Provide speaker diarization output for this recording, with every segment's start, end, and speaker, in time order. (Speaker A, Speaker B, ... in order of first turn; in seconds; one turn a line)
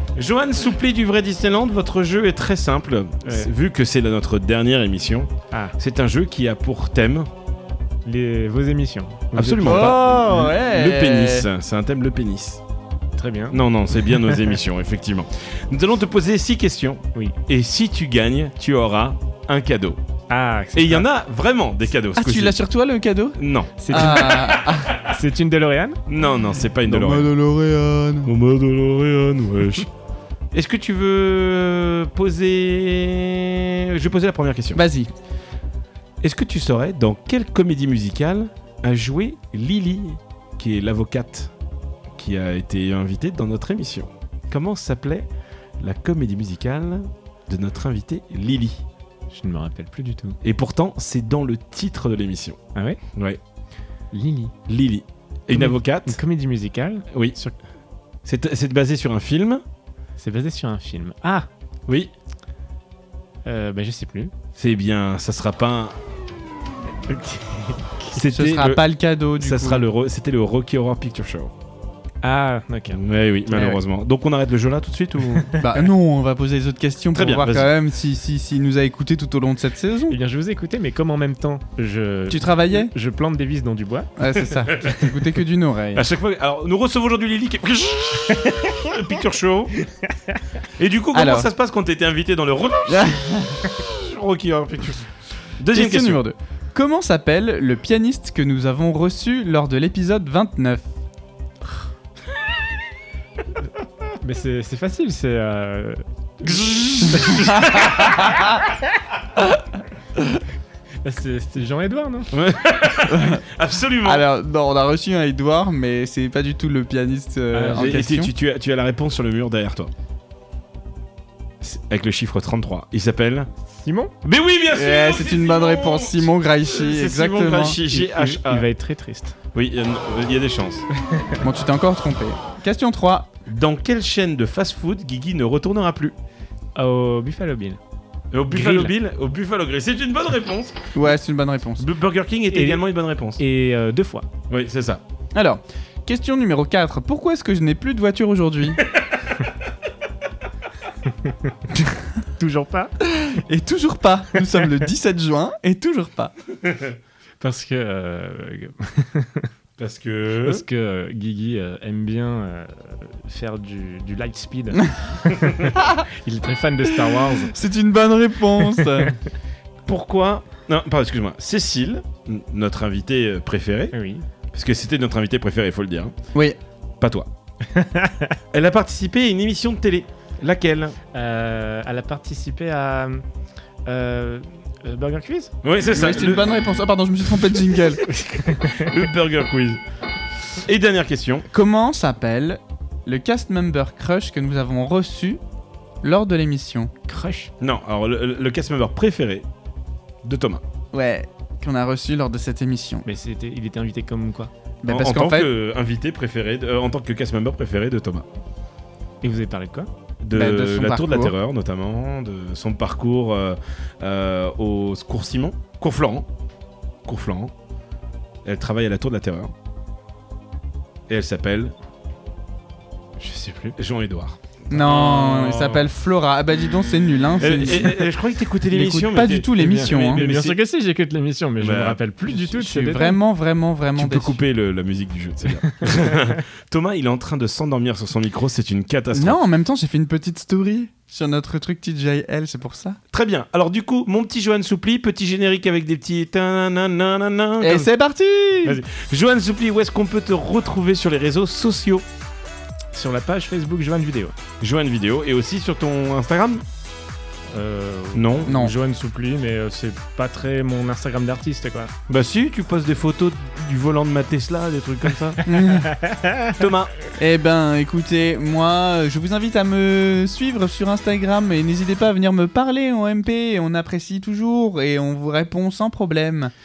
Speaker A: 0.1-7.3
Speaker B: 3.3-3.5
Speaker B: 5.5-5.8
Speaker B: 8.1-10.0
Speaker A: 9.3-12.6
Speaker C: 9.6-11.5
Speaker B: 13.2-14.6
Speaker A: 13.5-20.0
Speaker B: 20.3-21.1
Speaker A: 20.8-22.6
Speaker C: 22.2-25.0
Speaker A: 23.4-25.1
Speaker B: 23.8-26.0
Speaker A: 26.1-27.3
Speaker C: 26.9-28.3
Speaker A: 28.2-29.9
Speaker A: 30.5-34.8
Speaker C: 34.8-35.1
Speaker A: 36.2-41.5
Speaker A: 42.1-45.3
Speaker A: 45.8-48.8
Speaker B: 49.3-50.4
Speaker A: 50.4-52.6
Speaker B: 52.8-53.0
Speaker A: 53.1-53.4
Speaker B: 54.1-54.5
Speaker A: 54.7-56.2
Speaker B: 55.5-57.5
Speaker A: 58.2-59.6
Speaker B: 60.2-61.5
Speaker A: 61.9-62.1
Speaker B: 63.5-64.3
Speaker A: 64.6-66.0
Speaker B: 67.1-68.0
Speaker A: 68.1-68.8
Speaker C: 68.2-69.9
Speaker A: 69.4-71.5
Speaker B: 72.2-73.0
Speaker A: 72.9-75.6
Speaker C: 73.5-73.8
Speaker C: 75.6-80.2
Speaker A: 77.1-77.7
Speaker B: 80.1-84.4
Speaker C: 82.3-82.9
Speaker C: 84.2-86.0
Speaker A: 85.9-89.8
Speaker A: 90.8-95.0
Speaker C: 91.1-91.5
Speaker C: 92.9-93.7
Speaker A: 95.6-96.2
Speaker C: 95.7-100.9
Speaker B: 104.2-107.6
Speaker A: 106.4-108.3
Speaker C: 107.0-108.6
Speaker B: 111.0-112.3
Speaker A: 112.3-114.2
Speaker C: 113.1-113.4
Speaker C: 114.0-118.3
Speaker B: 117.5-118.0
Speaker A: 117.8-119.9
Speaker A: 121.6-123.5
Speaker B: 123.8-124.1
Speaker A: 124.2-128.7
Speaker C: 124.7-127.8
Speaker B: 127.9-129.4
Speaker A: 129.5-130.9
Speaker C: 131.4-133.3
Speaker A: 133.5-136.2
Speaker B: 136.8-137.8
Speaker A: 138.3-140.9
Speaker B: 138.5-138.9
Speaker C: 140.9-141.9
Speaker A: 141.8-143.4
Speaker B: 142.5-142.8
Speaker B: 143.4-144.3
Speaker A: 144.5-145.0
Speaker C: 145.3-148.8
Speaker A: 148.9-149.3
Speaker B: 152.4-152.9
Speaker C: 153.1-156.3
Speaker A: 156.6-156.9
Speaker B: 157.4-159.5
Speaker A: 159.8-160.7
Speaker B: 160.4-167.6
Speaker C: 165.8-166.0
Speaker C: 167.4-169.2
Speaker B: 168.8-169.1
Speaker A: 169.9-173.9
Speaker B: 173.9-174.2
Speaker A: 174.5-176.2
Speaker A: 177.0-177.3
Speaker B: 177.7-178.4
Speaker A: 178.5-181.0
Speaker B: 181.1-183.2
Speaker B: 183.9-185.6
Speaker A: 185.6-186.5
Speaker C: 185.9-188.0
Speaker A: 188.0-189.8
Speaker B: 188.1-189.0
Speaker A: 190.6-191.5
Speaker C: 191.5-195.4
Speaker C: 196.0-196.9
Speaker B: 197.1-197.5
Speaker A: 197.6-199.5
Speaker A: 200.2-200.6
Speaker C: 200.9-203.1
Speaker B: 203.1-204.5
Speaker C: 204.8-205.5
Speaker A: 204.9-208.3
Speaker B: 209.2-209.9
Speaker A: 210.2-216.3
Speaker C: 210.3-211.3
Speaker A: 217.1-217.5
Speaker A: 218.4-219.5
Speaker A: 221.1-221.7
Speaker B: 223.2-223.8
Speaker A: 223.8-225.8
Speaker C: 224.7-228.0
Speaker A: 227.4-230.6
Speaker C: 228.7-230.2
Speaker B: 229.6-233.2
Speaker A: 231.6-232.0
Speaker C: 232.3-234.4
Speaker A: 234.0-239.4
Speaker C: 239.1-243.0
Speaker A: 243.1-247.9
Speaker C: 247.6-248.8
Speaker A: 248.6-252.1
Speaker B: 252.9-254.3
Speaker A: 254.6-256.6
Speaker B: 257.5-261.9
Speaker A: 258.1-258.6
Speaker C: 258.5-258.7
Speaker A: 262.1-265.4
Speaker C: 265.4-265.9
Speaker B: 265.8-266.6
Speaker A: 266.6-266.9
Speaker C: 267.2-276.5